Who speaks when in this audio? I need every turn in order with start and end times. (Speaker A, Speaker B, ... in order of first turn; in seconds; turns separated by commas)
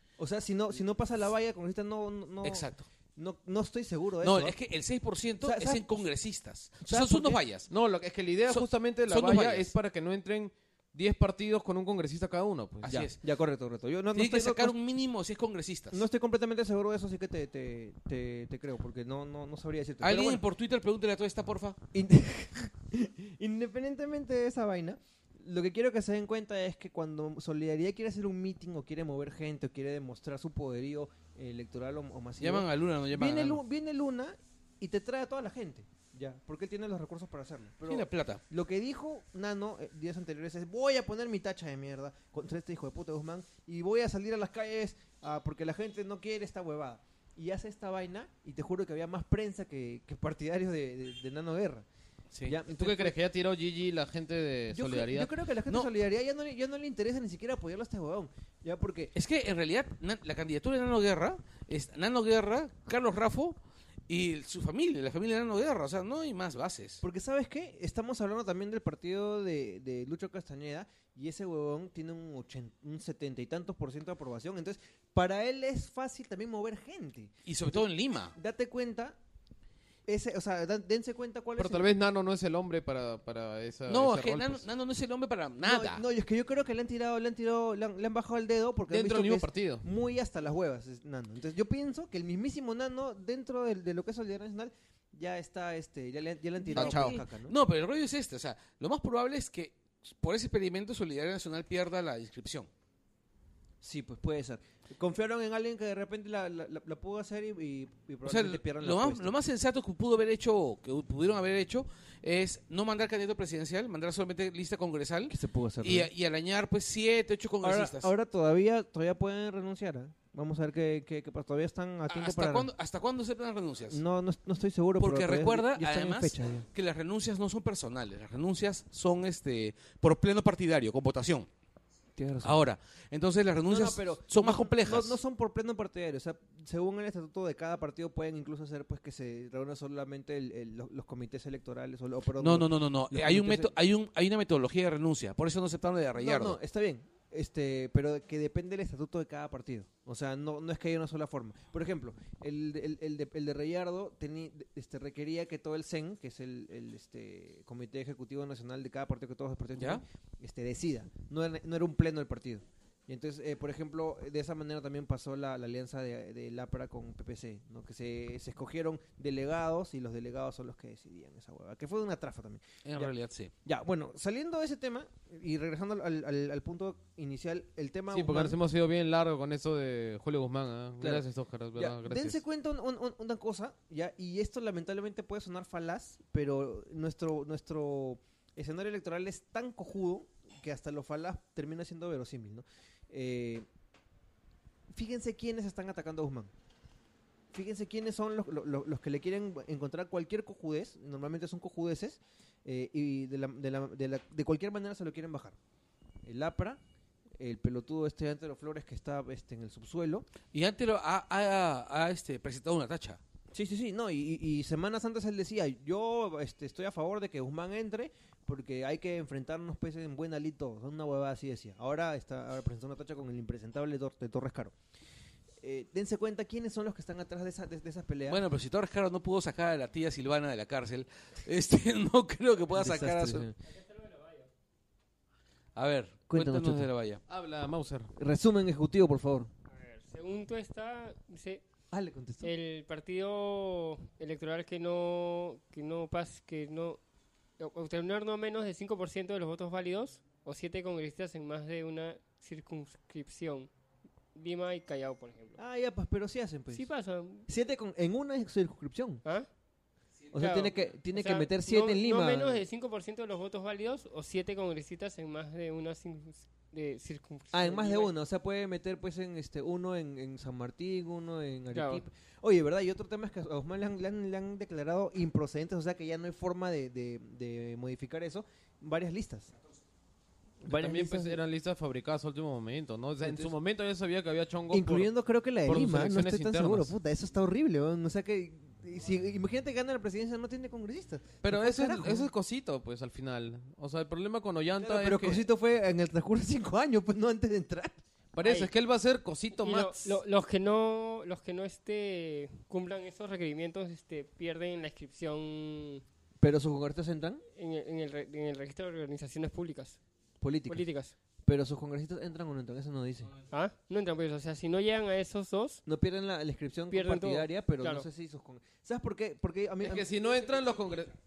Speaker A: 0.2-4.5, Speaker B: 2.4-2.9, Speaker B: 4.2-7.7, Speaker A: 5.4-5.8, Speaker A: 6.8-7.4, Speaker C: 7.7-13.1, Speaker B: 8.5-9.7, Speaker B: 12.9-13.2, Speaker A: 12.9-14.8, Speaker B: 14.2-16.0, Speaker A: 15.9-20.4, Speaker B: 20.0-21.8, Speaker A: 21.9-51.9, Speaker B: 32.4-33.6, Speaker B: 37.9-38.4, Speaker B: 52.3-52.6, Speaker A: 52.5-53.2, Speaker C: 52.7-55.3, Speaker A: 54.7-59.1, Speaker B: 59.1-63.6, Speaker B: 64.1-67.0, Speaker A: 67.0-77.8, Speaker B: 77.5-78.3, Speaker A: 78.3-79.2, Speaker A: 80.1-81.9, Speaker C: 81.6-84.6, Speaker B: 83.9-86.0, Speaker A: 85.6-97.5, Speaker C: 88.9-89.9, Speaker C: 96.7-97.2, Speaker B: 96.8-102.7, Speaker A: 103.8-109.3, Speaker B: 108.2-118.1, Speaker A: 115.3-116.1, Speaker A: 117.6-122.7, Speaker B: 122.1-124.0, Speaker A: 123.9-126.7, Speaker B: 125.0-131.5, Speaker A: 132.2-132.6, Speaker B: 132.4-135.2, Speaker A: 133.7-143.7, Speaker B: 142.4-146.6, Speaker A: 146.2-173.1, Speaker B: 159.8-160.0, Speaker B: 172.8-173.5, Speaker A: 173.7-178.6, Speaker C: 178.1-182.4, Speaker A: 181.0-193.7, Speaker A: 194.9-196.5, Speaker A: 197.5-205.6, Speaker A: 206.2-206.8, Speaker A: 207.4-210.3, Speaker B: 210.5-213.2, Speaker A: 213.5-224.8, Speaker A: 225.6-228.4, Speaker B: 228.3-233.5, Speaker A: 232.7-233.5, Speaker D: 233.6-234.5, Speaker B: 235.8-237.2, Speaker A: 236.3-236.9, Speaker C: 237.3-238.1, Speaker A: 238.2-239.5, Speaker D: 239.7-241.6, Speaker A: 241.9-242.5, Speaker D: 242.4-247.0, Speaker D: 247.6-253.7, Speaker D: 254.3-255.6, Speaker A: 255.6-256.9, Speaker D: 256.7-257.5, Speaker A: 257.4-259.2, Speaker A: 260.3-262.6, Speaker D: 260.3-268.1, Speaker A: 267.5-279.5, Speaker D: 271.7-272.0, Speaker A: 280.6-281.4, Speaker C: 280.6-285.1, Speaker A: 283.2-283.5, Speaker A: 284.7-292.3, Speaker C: 285.6-286.9, Speaker C: 291.4-295.4, Speaker A: 294.8-298.0, Speaker C: 298.3-300.2, Speaker D: 298.4-298.7, Speaker D: 299.6-306.1, Speaker A: 306.4-307.4, Speaker D: 307.6-310.0, Speaker A: 310.4-310.9, Speaker D: 310.7-311.1, Speaker A: 311.4-313.3, Speaker D: 313.5-315.8, Speaker A: 315.9-320.1, Speaker D: 316.9-318.1, Speaker C: 319.8-321.1